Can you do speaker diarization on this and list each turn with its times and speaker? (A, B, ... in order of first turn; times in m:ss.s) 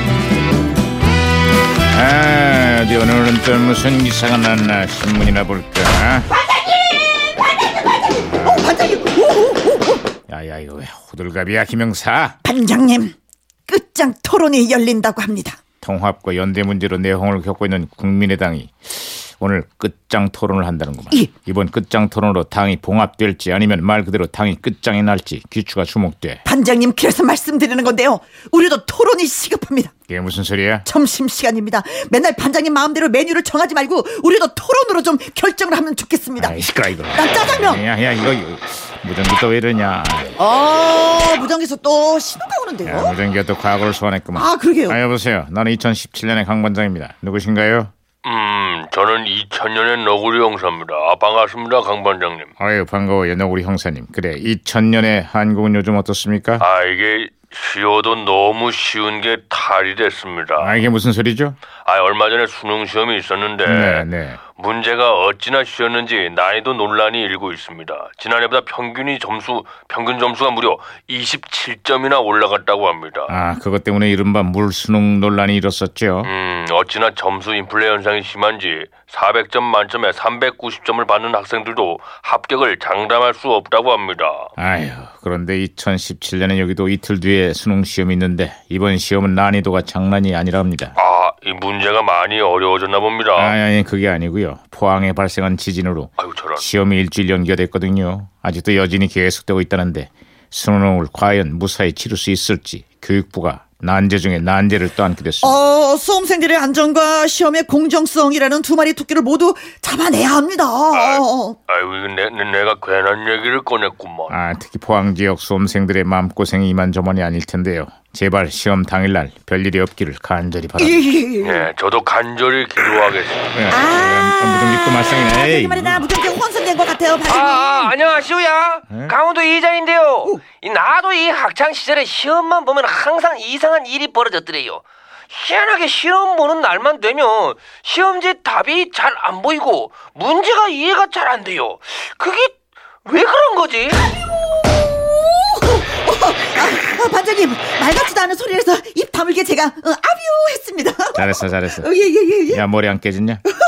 0:01.9-0:06.3 A
0:07.6-0:10.0 B
0:08.2-0:08.7 A
0:10.3-0:12.4 A
0:12.4-0:13.1 B
0:13.7-0:15.6 B
0:15.8-0:26.4 A
0:26.4-0:29.9 B
0:30.1-0:30.8 A
0:30.8-0:36.6 B
0:36.4-0:40.4 A
0:37.1-0:37.8 B
0:40.4-0:43.1 B
0:42.8-0:47.9 A
0:44.3-0:45.0 B
0:48.2-0:52.5 C
0:52.6-0:56.6 A
0:56.6-1:00.8 C
1:00.6-1:01.6 A
1:01.8-1:13.3 C
1:03.6-1:04.4 A
1:13.3-1:16.3 A
1:16.2-1:24.5 C
1:24.6-1:31.0 A
1:31.0-1:33.5 C
1:33.4-1:45.6 A
1:36.2-1:36.6 C
1:45.4-1:51.6 B
1:50.9-1:54.4 C
1:54.3-2:01.1 A
2:00.8-2:01.7 B
2:01.4-2:03.5 C
2:03.5-2:06.1 A
2:03.7-2:07.9 B
2:07.3-2:09.2 C
2:07.7-2:22.5 D
2:17.6-2:17.9 C
2:19.2-2:20.9 C
2:23.0-2:24.0 D
2:25.3-2:32.6 B
2:31.1-2:31.9 A
2:32.5-2:33.4 A